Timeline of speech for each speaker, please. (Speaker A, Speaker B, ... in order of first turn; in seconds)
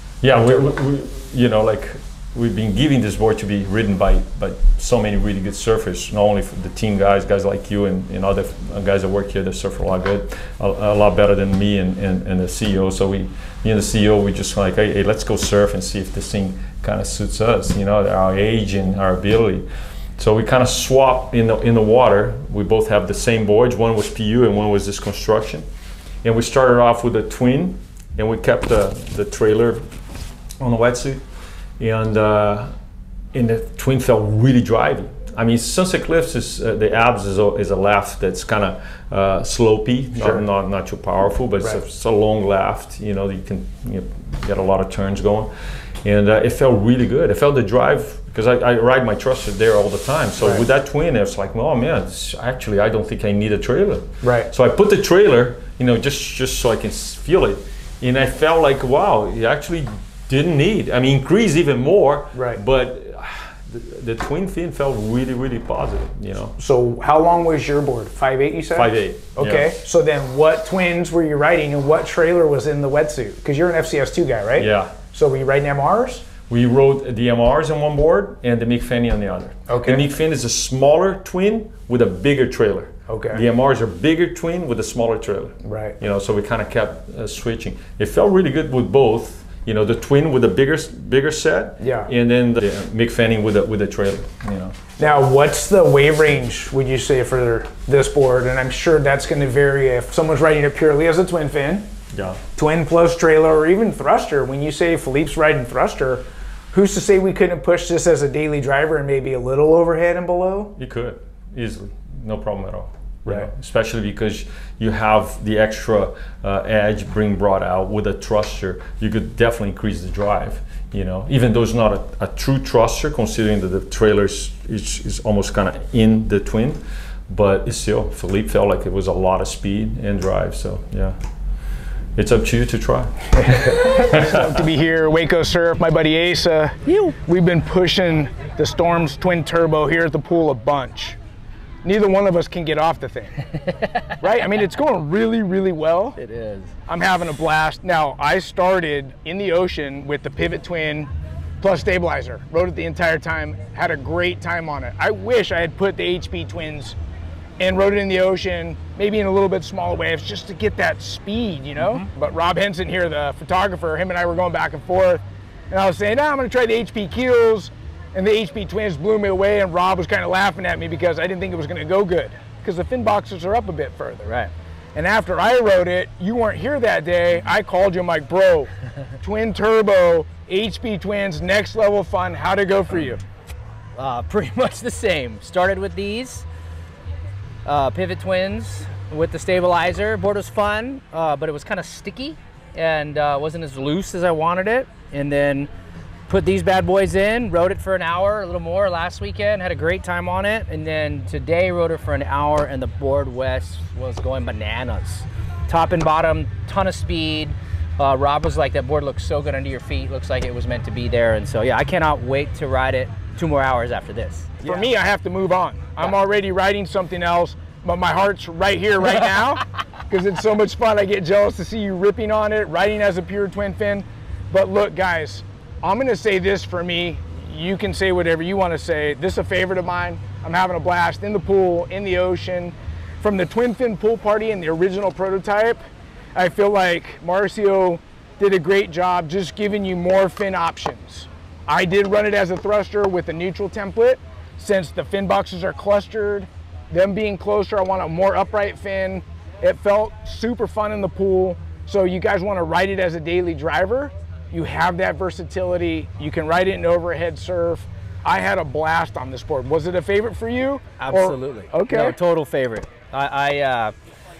Speaker A: 0.2-25.6, 26.2-29.8, 30.6-31.2, 31.8-32.7, 33.3-45.5, 46.0-66.5, 68.7-69.7, 74.6-74.9, 76.5-94.7, 102.1-102.4, 110.8-131.2, 132.2-134.3
Speaker B: 0.3-0.7, 40.2-40.4, 54.2-54.5, 62.3-62.6, 66.6-76.3, 79.7-80.0, 83.1-83.4, 85.6-86.0, 91.8-92.1, 95.0-101.8, 102.5-110.7, 133.3-141.2, 141.8-143.5, 144.1-146.2, 146.9-156.9, 157.6-174.3, 174.9-183.2, 214.6-235.8, 236.3-262.2
Speaker C: 136.8-137.1, 146.2-146.7, 183.9-186.4, 187.6-195.7, 196.3-214.9, 261.0-263.9